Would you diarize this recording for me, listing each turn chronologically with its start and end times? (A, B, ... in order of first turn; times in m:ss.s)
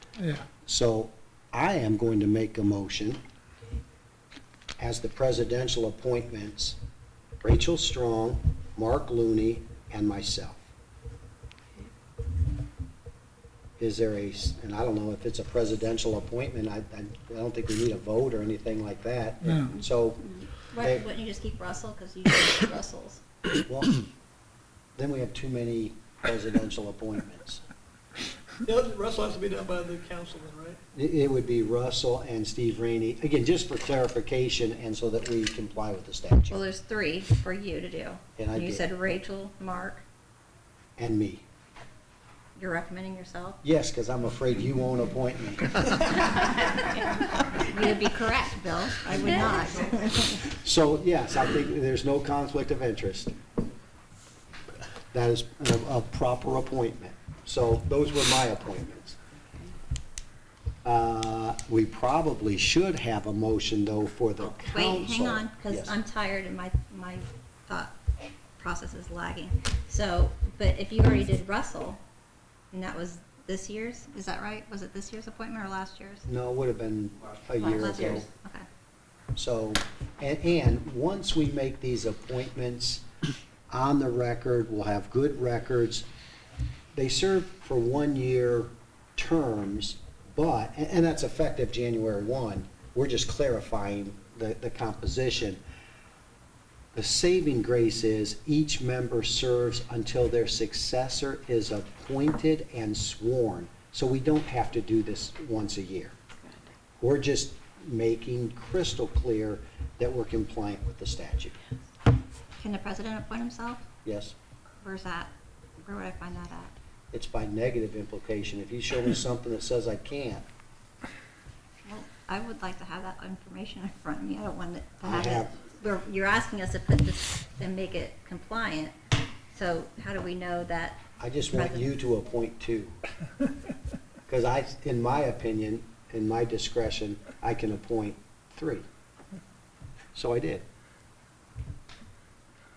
0:00.6-0:03.2 A
0:04.8-0:06.8 A
0:07.4-0:10.6 A
0:13.8-0:21.0 A
0:20.4-0:23.2 B
0:23.6-0:24.0 A
0:25.0-0:27.6 A
0:28.6-0:30.8 C
0:30.9-0:36.6 A
0:36.5-0:40.0 B
0:38.4-0:38.8 A
0:41.0-0:41.4 A
0:42.6-0:43.6 B
0:43.6-0:47.0 A
0:46.3-0:50.5 B
0:50.5-0:53.3 A
0:55.1-0:59.2 A
1:00.8-1:05.9 A
1:04.4-1:07.9 B
1:08.6-1:12.0 B
1:12.7-1:16.2 B
1:16.3-1:18.2 A
1:17.6-1:18.6 B
1:19.3-1:23.0 A
1:23.7-1:26.0 A
1:26.9-1:35.6 A
1:36.9-1:46.1 A
1:47.0-1:51.5 A
1:52.6-1:53.8 B
1:54.0-1:54.3 A
1:54.8-1:56.7 B
1:57.1-2:00.4 A
2:01.8-2:08.9 B
2:05.0-2:05.5 A
2:09.5-2:11.9 B
2:11.2-2:13.0 A
2:14.3-2:18.8 A
2:20.1-2:20.6 A